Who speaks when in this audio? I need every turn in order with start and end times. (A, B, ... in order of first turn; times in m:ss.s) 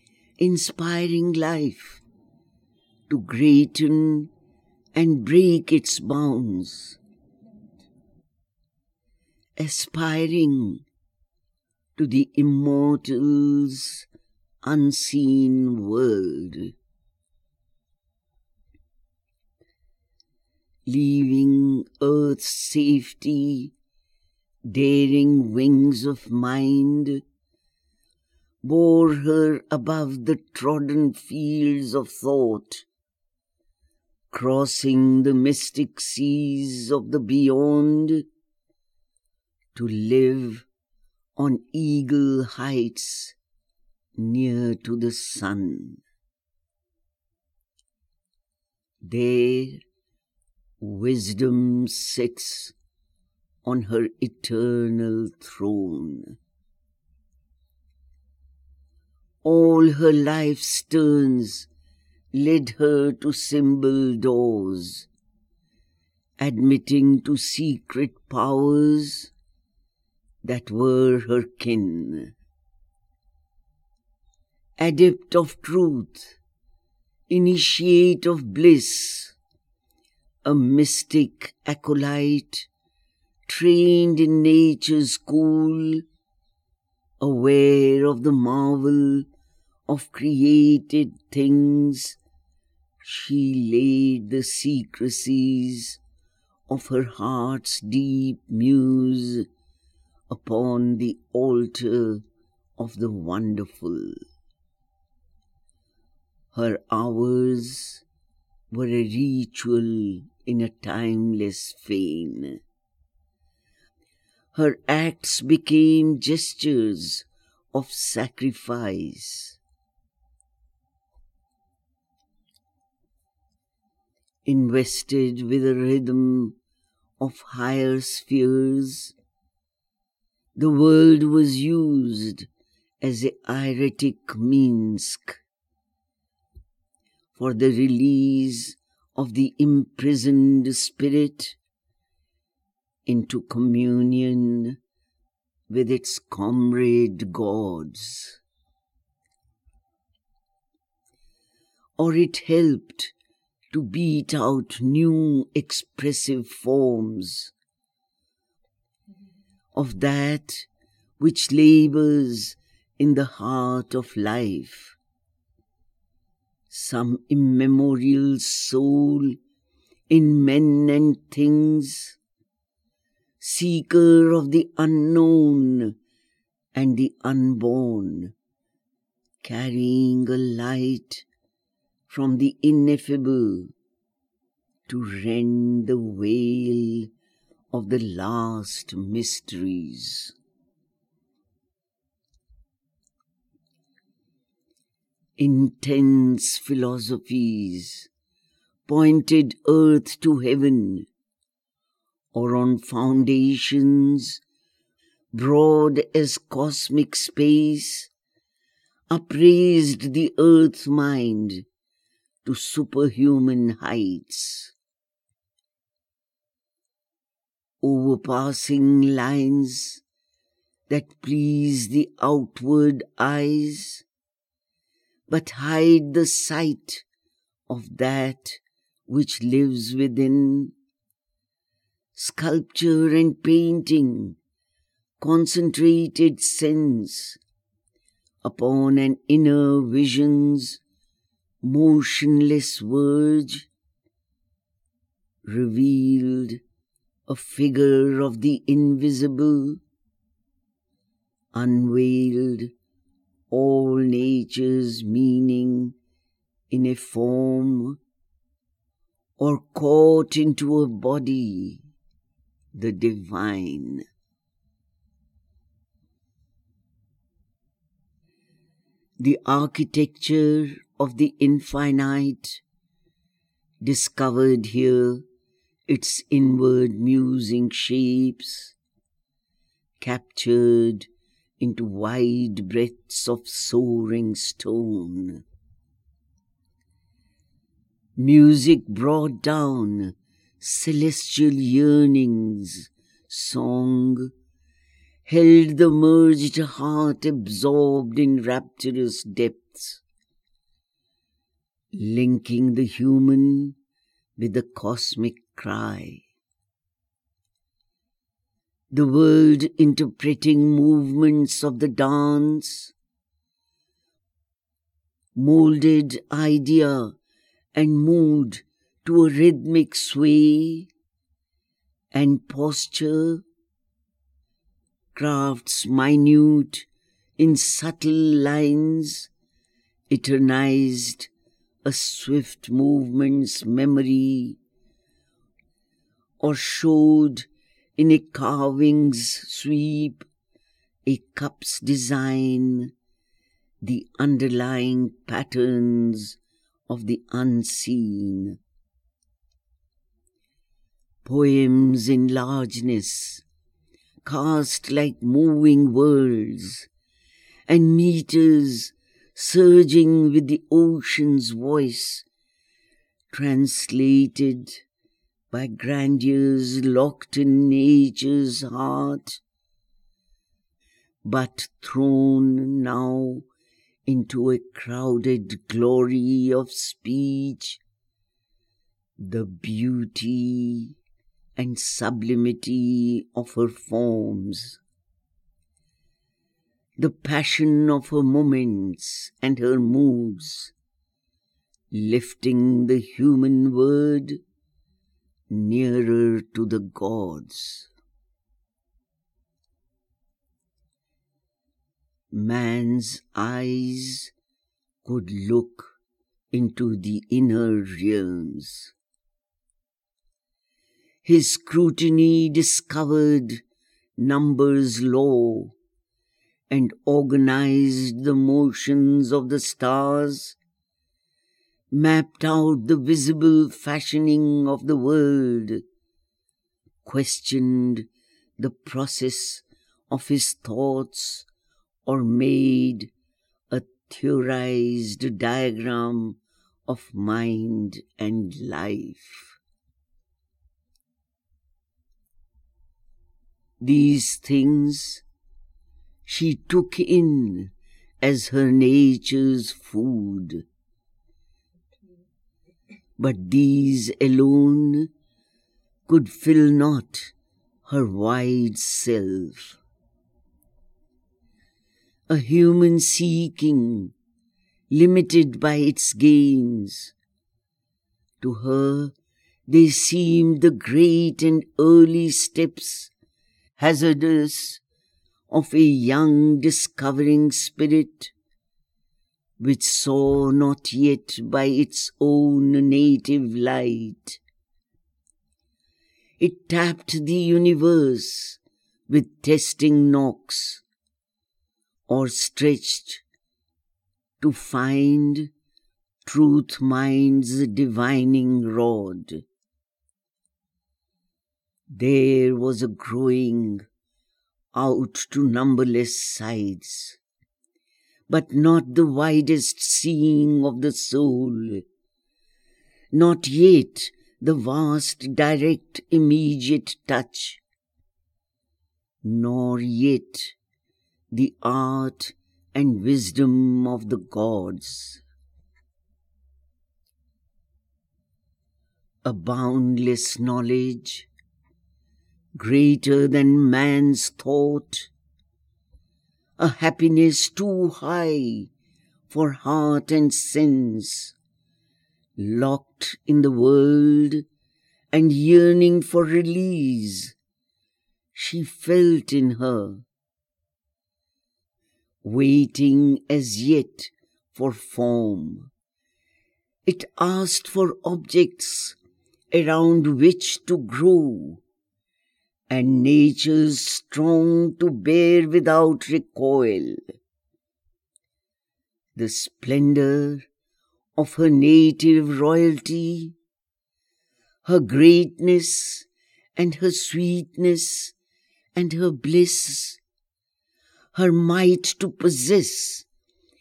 0:00.4-0:02.0 A
0:03.1-0:04.3 A
0:04.9-0:07.0 A
0:09.6-0:10.8 A
0:12.0-0:14.1 A
0:14.6-0:16.7 A
0:20.8-0:23.7 A
0:24.6-0:27.2 A
0:28.6-0:32.8 A
0:34.3-0:38.2 A
0:39.7-0:40.6 A
0:41.4-0:43.4 A
0:44.2-0:46.0 A
0:49.0-0:49.8 A
0:50.8-0:52.7 A
0:53.6-0:56.4 A
0:59.4-1:01.7 A
1:02.3-1:05.1 A
1:06.4-1:09.3 A
1:10.4-1:12.3 A
1:14.8-1:16.4 A
1:17.3-1:19.3 A
1:20.4-1:22.7 A
1:23.5-1:26.0 A
1:27.2-1:29.2 A
1:29.9-1:32.2 A
1:33.0-1:36.0 A
1:36.7-1:39.5 A
1:40.3-1:42.2 A
1:42.8-1:44.2 A
1:46.5-1:48.0 A
1:48.7-1:52.6 A
1:54.5-1:59.6 A
2:04.4-2:06.5 A
2:07.2-2:09.1 A
2:10.6-2:12.5 A
2:13.0-2:15.4 A
2:17.3-2:21.6 A
2:23.0-2:24.8 A
2:25.7-2:28.4 A
2:32.0-2:33.1 A
2:33.7-2:37.5 A
2:39.7-2:40.7 A
2:41.2-2:45.0 A
2:46.7-2:49.4 A
2:50.1-2:52.2 A
2:53.4-2:55.9 A
2:56.7-2:58.3 A
2:59.4-3:01.2 A
3:02.1-3:03.7 A
3:04.9-3:07.1 A
3:07.7-3:10.3 A
3:15.4-3:18.1 A
3:18.9-3:21.1 A
3:22.3-3:24.4 A
3:25.3-3:28.1 A
3:29.1-3:31.6 A
3:32.4-3:34.7 A
3:37.8-3:40.0 A
3:40.9-3:44.0 A
3:45.3-3:47.0 A
3:47.7-3:50.7 A
3:52.1-3:54.4 A
3:55.2-3:57.4 A
3:58.4-4:00.8 A
4:01.6-4:03.7 A
4:05.4-4:06.6 A
4:07.3-4:09.8 A
4:11.5-4:12.7 A
4:13.5-4:15.9 A
4:16.7-4:18.0 A
4:19.4-4:21.8 A
4:22.7-4:24.0 A
4:29.2-4:32.6 A
4:33.8-4:35.2 A
4:35.9-4:38.7 A
4:40.0-4:41.1 A
4:41.6-4:45.4 A
4:48.2-4:54.3 A
4:55.2-5:00.0 A
5:01.9-5:03.8 A
5:04.4-5:06.2 A
5:08.9-5:12.9 A
5:15.3-5:17.1 A
5:17.7-5:20.9 A
5:22.1-5:23.4 A
5:25.1-5:26.9 A
5:27.4-5:29.3 A
5:30.1-5:31.3 A
5:31.8-5:34.6 A
5:36.4-5:40.2 A
5:41.0-5:42.9 A
5:43.8-5:46.4 A
5:46.9-5:48.6 A
5:51.2-5:53.4 A
5:54.2-5:56.9 A
5:57.7-6:02.2 A
6:03.3-6:04.8 A
6:05.5-6:09.4 A
6:11.2-6:13.4 A
6:14.0-6:17.8 A
6:19.2-6:20.9 A
6:21.6-6:24.8 A
6:27.0-6:30.7 A
6:31.9-6:34.4 A
6:35.5-6:37.9 A
6:42.3-6:44.3 A
6:45.0-6:46.0 A
6:46.5-6:48.9 A
6:51.2-6:53.6 A
6:54.2-6:55.7 A
6:56.7-7:00.6 A
7:01.9-7:05.8 A
7:07.0-7:08.1 A
7:08.6-7:11.4 A
7:12.0-7:13.1 A
7:13.7-7:19.6 A
7:23.8-7:25.2 A
7:26.2-7:30.6 A
7:33.2-7:35.1 A
7:36.1-7:37.3 A
7:37.8-7:39.8 A
7:42.3-7:44.1 A
7:44.9-7:47.1 A
7:48.4-7:49.1 A
7:49.7-7:53.1 A
7:53.8-7:54.8 A
7:55.5-7:58.3 A
7:59.6-8:04.4 A
8:06.4-8:10.8 A
8:12.1-8:13.2 A
8:14.4-8:15.5 A
8:16.2-8:19.4 A
8:21.9-8:23.8 A
8:24.7-8:27.2 A
8:28.3-8:31.8 A
8:33.1-8:37.6 A
8:39.2-8:40.5 A
8:41.3-8:45.2 A
8:49.2-8:51.3 A
8:52.5-8:55.1 A
8:56.6-8:58.7 A
8:59.3-9:01.3 A
9:02.4-9:04.4 A
9:05.1-9:07.3 A
9:08.3-9:10.0 A
9:12.2-9:15.7 A
9:16.8-9:19.0 A
9:19.5-9:21.6 A
9:22.7-9:27.0 A
9:29.2-9:30.4 A
9:31.2-9:33.3 A
9:34.6-9:38.1 A
9:38.7-9:40.0 A
9:41.1-9:43.0 A